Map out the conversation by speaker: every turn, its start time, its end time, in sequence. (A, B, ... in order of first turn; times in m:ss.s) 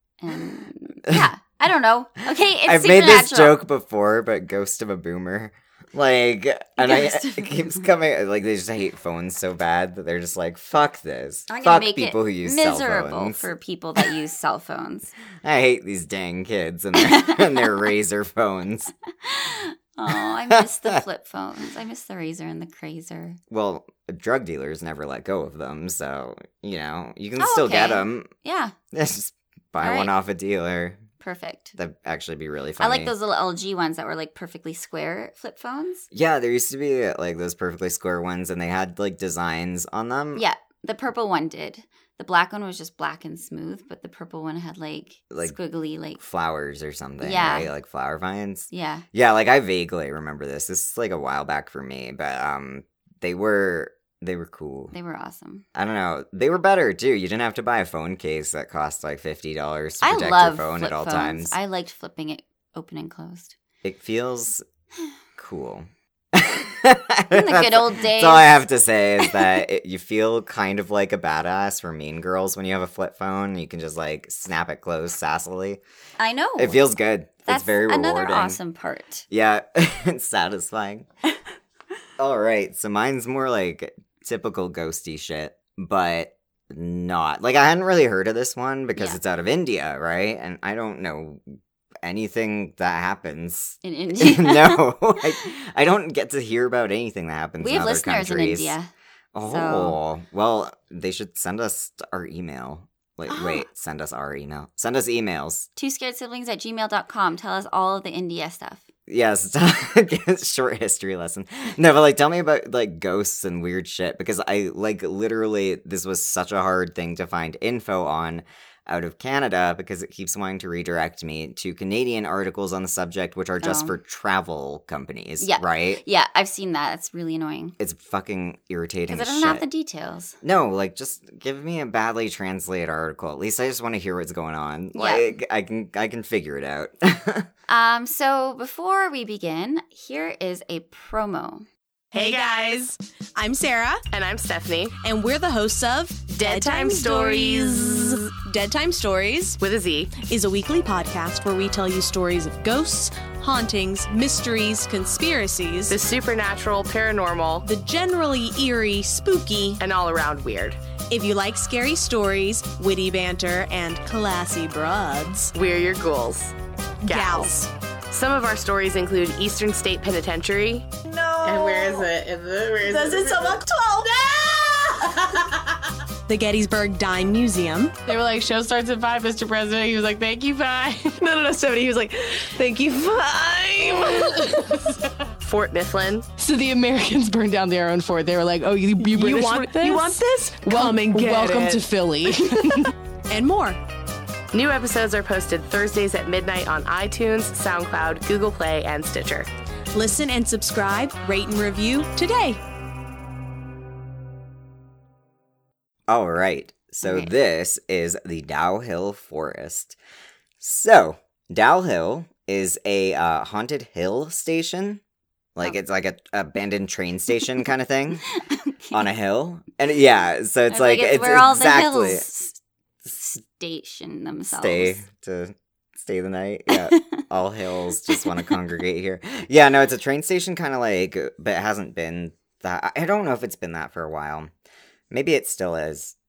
0:00.2-0:03.6 A
0:02.3-0:14.1 B
0:06.8-0:07.9 A
0:11.5-0:15.1 A
0:15.4-0:18.9 B
0:17.0-0:17.6 A
0:19.2-0:23.4 A
0:20.1-0:21.0 B
0:23.5-0:28.3 B
0:27.4-0:28.8 A
0:28.9-0:31.0 B
0:29.8-0:30.1 A
0:31.2-0:31.8 A
0:31.8-0:33.1 B
0:32.8-0:36.1 A
0:36.1-0:40.4 B
0:40.4-0:46.2 A
0:45.3-0:45.6 B
0:46.2-0:54.9 B
0:47.2-0:47.7 A
0:48.7-0:49.0 A
0:54.9-0:55.7 A
0:55.8-1:01.6 B
1:00.0-1:03.6 A
1:03.8-1:04.6 B
1:05.4-1:15.8 B
1:07.3-1:08.6 A
1:09.2-1:09.5 A
1:16.2-1:16.9 A
1:16.6-1:18.6 B
1:17.5-1:19.3 A
1:19.3-1:21.1 B
1:22.2-1:38.8 B
1:33.8-1:35.5 A
1:37.6-1:38.9 A
1:39.3-1:45.7 B
1:39.4-1:40.0 A
1:43.3-1:43.7 A
1:45.8-1:48.9 A
1:49.1-2:06.0 B
2:03.6-2:04.0 A
2:05.4-2:07.8 A
2:07.8-2:09.6 B
2:09.1-2:10.4 A
2:10.4-2:17.5 B
2:15.0-2:15.3 A
2:17.7-2:21.7 A
2:22.1-2:24.0 C
2:22.1-2:22.8 D
2:24.1-2:25.0 D
2:25.0-2:29.6 C
2:26.3-2:28.3 D
2:29.6-2:30.2 D
2:30.2-2:36.0 C
2:35.9-2:37.6 D
2:37.6-2:39.8 C
2:39.8-2:40.8 D
2:41.1-2:45.5 C
2:45.5-2:47.6 D
2:47.1-2:47.7 C
2:48.1-2:55.0 D
2:51.4-2:52.0 E
2:56.3-2:58.0 C
2:58.1-3:06.3 D
3:02.6-3:03.4 E
3:03.9-3:04.4 E
3:06.4-3:12.9 E
3:09.1-3:11.8 C
3:09.2-3:10.2 D
3:10.8-3:11.8 D
3:13.3-3:13.8 C
3:14.5-3:19.5 D
3:19.9-3:22.6 C
3:26.1-3:30.0 B
3:27.0-3:27.3 A
3:30.6-3:35.0 B
3:35.6-3:38.2 B
3:38.4-3:39.0 A
3:38.9-3:42.3 B
3:40.7-3:45.0 A
3:44.5-3:54.5 B
3:46.7-3:47.2 A
3:48.1-3:48.6 A
3:55.1-3:56.2 B